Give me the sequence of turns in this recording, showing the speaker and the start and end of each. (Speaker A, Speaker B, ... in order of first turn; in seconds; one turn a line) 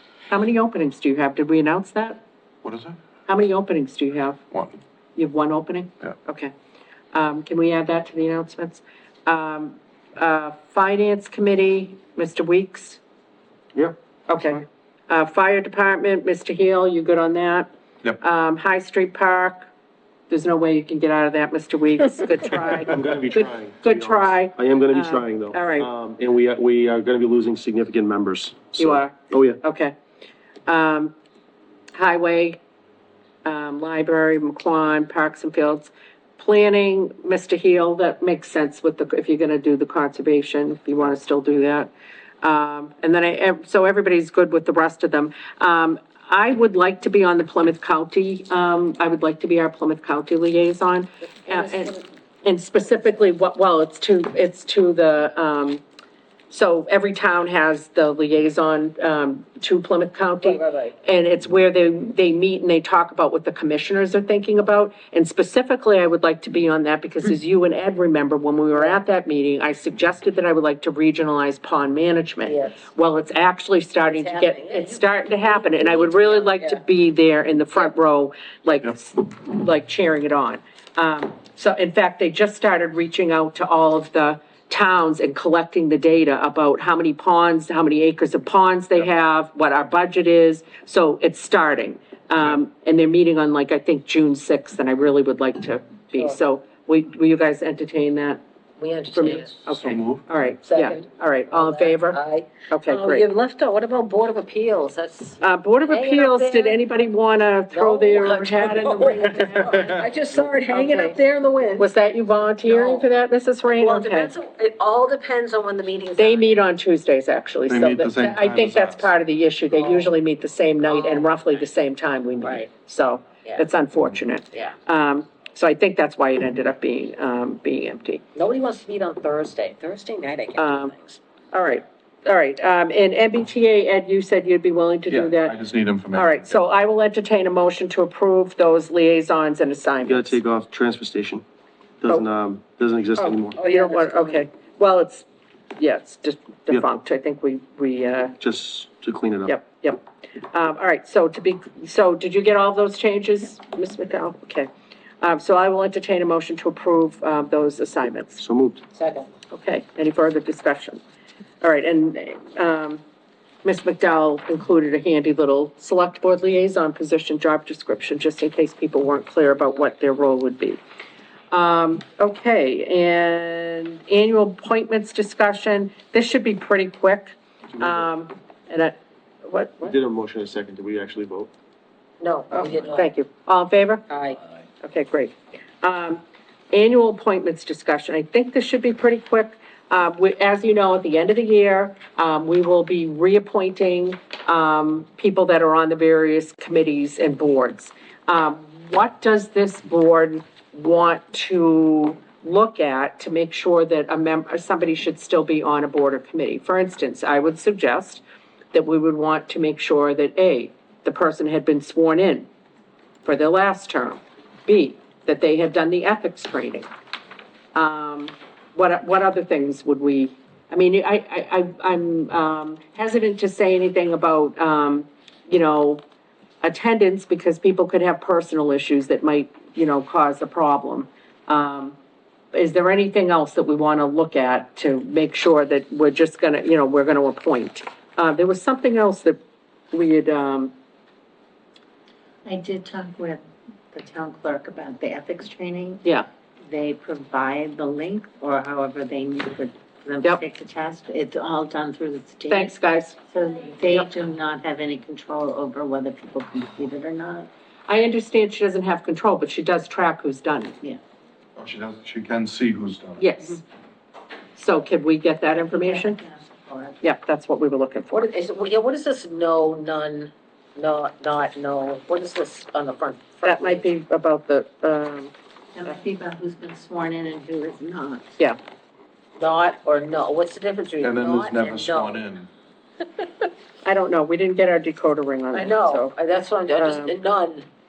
Speaker A: 0.3-2.2
Speaker B: 2.6-3.0
Speaker A: 3.3-4.4
Speaker B: 4.5-4.8
Speaker A: 5.2-6.5
Speaker A: 7.1-13.0
Speaker A: 14.3-17.7
Speaker A: 18.2-19.7
Speaker A: 20.3-25.9
Speaker C: 22.9-29.6
Speaker A: 28.8-29.9
Speaker A: 30.7-31.1
Speaker A: 31.9-32.6
Speaker A: 33.4-41.9
Speaker A: 42.4-55.8
Speaker D: 51.5-52.0
Speaker A: 56.5-98.4
Speaker D: 60.4-61.0
Speaker D: 68.7-69.0
Speaker D: 72.4-72.8
Speaker D: 74.1-76.8
Speaker D: 98.8-99.7
Speaker A: 99.1-103.3
Speaker B: 99.8-100.2
Speaker D: 100.7-106.8
Speaker A: 105.4-109.9
Speaker D: 107.7-111.9
Speaker A: 110.7-111.2
Speaker A: 111.8-114.3
Speaker D: 112.7-113.1
Speaker D: 113.7-116.6
Speaker A: 116.2-128.2
Speaker B: 117.7-119.1
Speaker D: 119.8-120.1
Speaker D: 120.9-121.5
Speaker D: 122.4-122.7
Speaker D: 128.3-131.2
Speaker A: 130.6-130.9
Speaker A: 131.5-135.6
Speaker B: 135.1-136.6
Speaker A: 136.1-140.4
Speaker C: 140.0-141.4
Speaker C: 142.0-143.6
Speaker A: 143.2-145.2
Speaker D: 143.6-144.4
Speaker A: 145.8-148.3
Speaker C: 148.4-149.5
Speaker A: 149.5-154.7
Speaker A: 155.2-158.4
Speaker C: 158.4-158.8
Speaker D: 158.9-159.3
Speaker A: 159.5-161.0
Speaker A: 161.6-163.0
Speaker A: 163.6-170.8
Speaker A: 171.5-179.9
Speaker C: 177.7-178.0
Speaker C: 179.8-181.5
Speaker D: 182.2-183.1
Speaker A: 182.5-184.1
Speaker D: 184.1-184.4
Speaker A: 184.8-212.5
Speaker A: 213.2-216.9
Speaker A: 217.8-226.0
Speaker A: 226.6-232.0
Speaker A: 232.5-239.4
Speaker A: 239.9-240.7
Speaker E: 242.5-246.0
Speaker E: 246.6-252.8
Speaker A: 252.5-253.2
Speaker E: 253.3-257.5
Speaker A: 257.9-260.8
Speaker B: 261.6-263.3
Speaker A: 263.2-263.6
Speaker A: 264.6-266.2
Speaker E: 265.5-267.0
Speaker A: 267.0-268.3
Speaker D: 268.1-273.8
Speaker A: 273.4-275.3
Speaker E: 275.7-278.4
Speaker D: 279.4-282.2
Speaker B: 281.0-282.5
Speaker A: 283.8-286.1
Speaker D: 285.5-287.7
Speaker A: 286.8-287.1